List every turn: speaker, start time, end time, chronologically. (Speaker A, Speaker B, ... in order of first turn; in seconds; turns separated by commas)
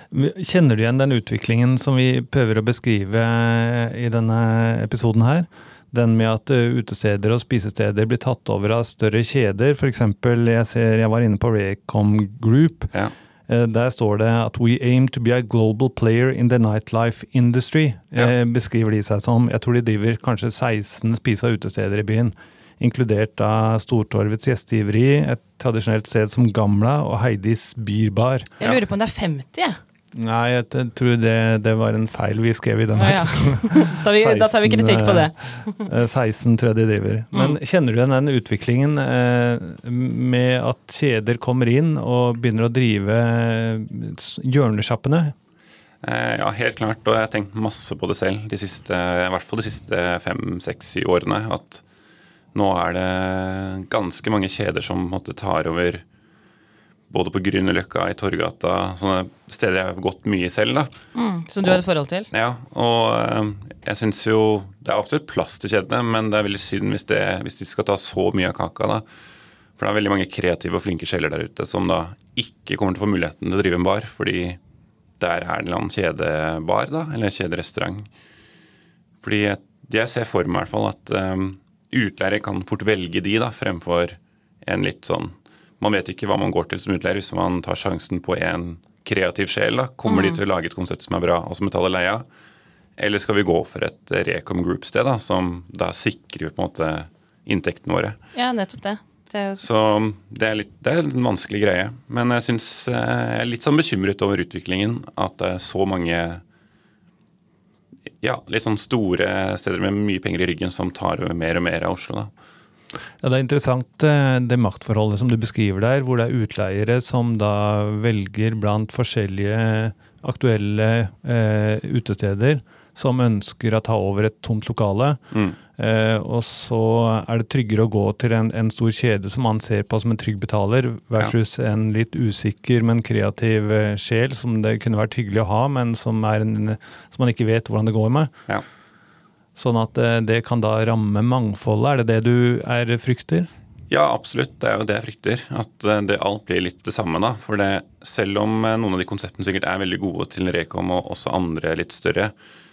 Speaker A: 0.1-12.9, Speaker A: 13.5-28.5, Speaker B: 28.6-29.8, Speaker A: 30.1-45.4, Speaker B: 33.0-35.8, Speaker C: 46.0-51.8, Speaker C: 52.5-56.0, Speaker C: 57.1-60.9, Speaker B: 61.1-62.3, Speaker C: 61.6-69.0, Speaker C: 69.8-74.6, Speaker C: 75.2-78.1, Speaker C: 79.2-92.2, Speaker B: 90.1-90.4, Speaker C: 93.0-98.2, Speaker B: 98.3-99.7, Speaker C: 99.6-106.4, Speaker C: 108.2-112.3, Speaker A: 113.2-125.2, Speaker A: 125.8-138.3, Speaker A: 139.6-143.5, Speaker C: 143.9-152.3